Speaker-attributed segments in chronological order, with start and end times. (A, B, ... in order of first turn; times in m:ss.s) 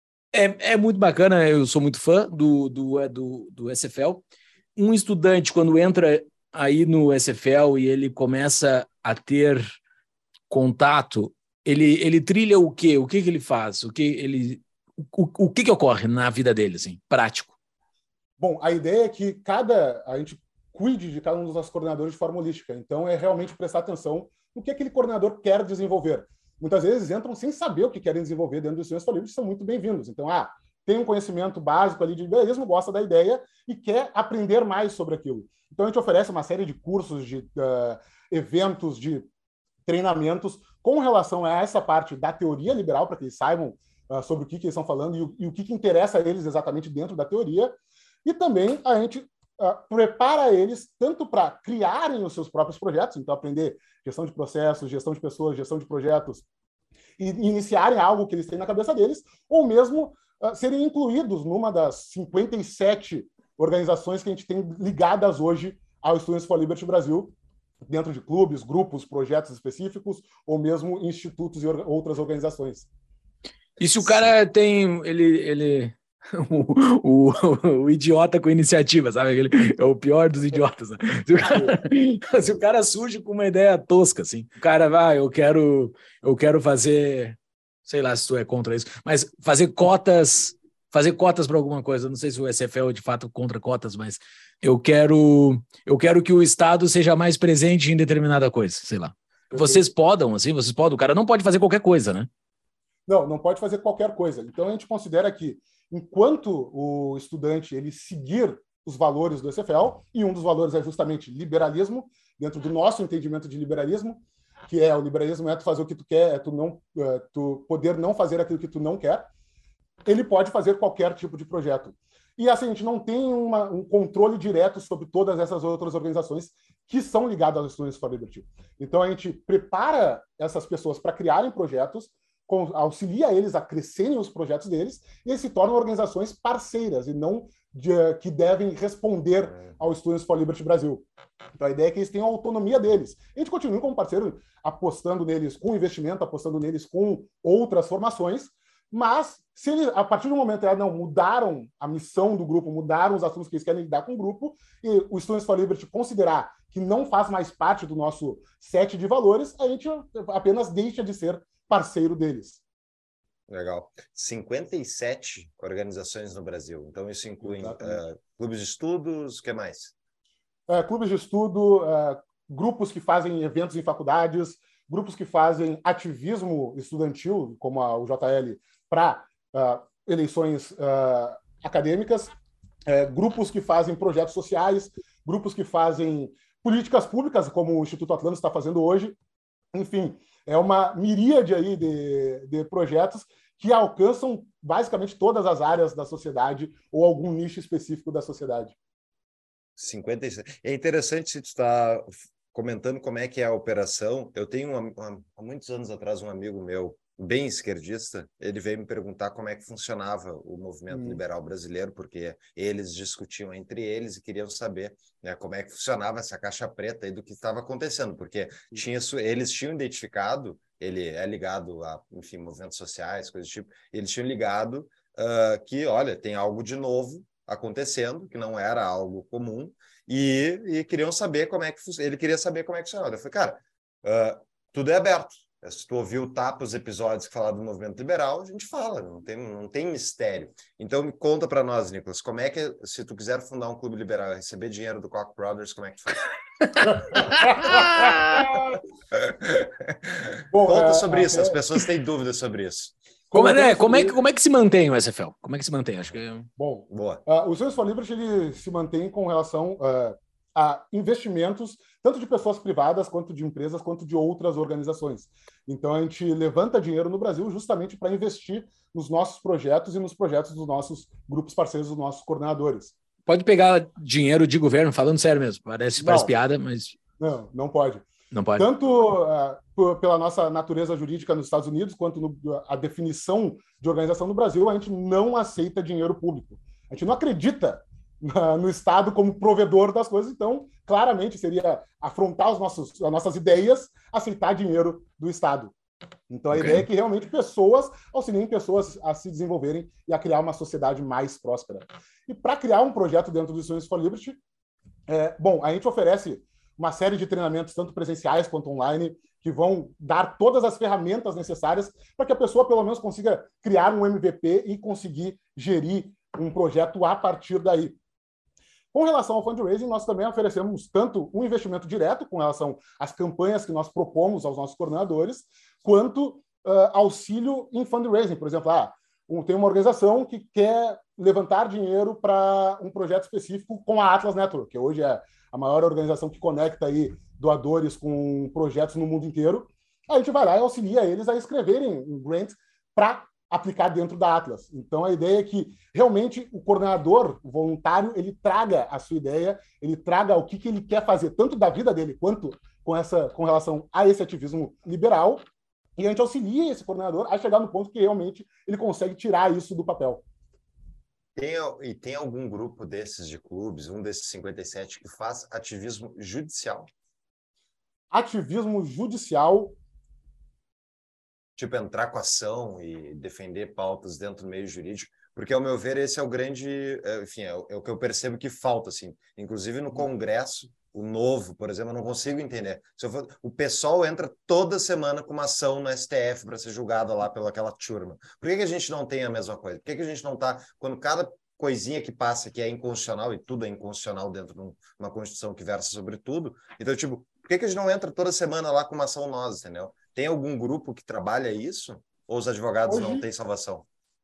0:00.3-0:04.2 A
0:04.8-0:09.6 A
0:10.5-0:17.6 A
0:18.4-0:39.2 B
0:39.9-0:56.4 B
0:57.2-1:07.4 B
1:07.9-1:12.9 B
1:13.8-1:42.3 A
1:21.5-1:21.8 B
1:39.5-1:39.8 B
1:43.1-1:59.3 B
2:00.1-2:21.0 B
2:21.6-2:42.6 B
2:43.5-2:49.9 C
2:47.4-2:48.0 B
2:50.7-3:02.3 B
3:02.9-3:09.2 B
3:09.7-3:18.8 B
3:19.8-4:06.2 C
3:30.9-3:31.2 B
4:07.2-4:07.8 C
4:07.7-4:08.4 A
4:09.1-4:12.9 C
4:10.5-4:11.6 B
4:13.3-4:14.2 B
4:13.3-4:16.5 A
4:16.6-4:32.9 B
4:16.9-4:17.2 C
4:33.3-4:37.0 A
4:36.0-4:36.3 B
4:37.2-4:38.1 B
4:38.3-4:38.7 A
4:38.6-4:55.7 B
4:56.3-5:04.4 B
4:56.5-4:56.9 A
5:05.1-5:18.0 B
5:18.9-5:55.4 B
5:56.0-6:00.2 B
6:01.4-6:06.9 C
6:08.1-6:09.8 B
6:11.6-6:43.9 C
6:42.9-6:43.3 B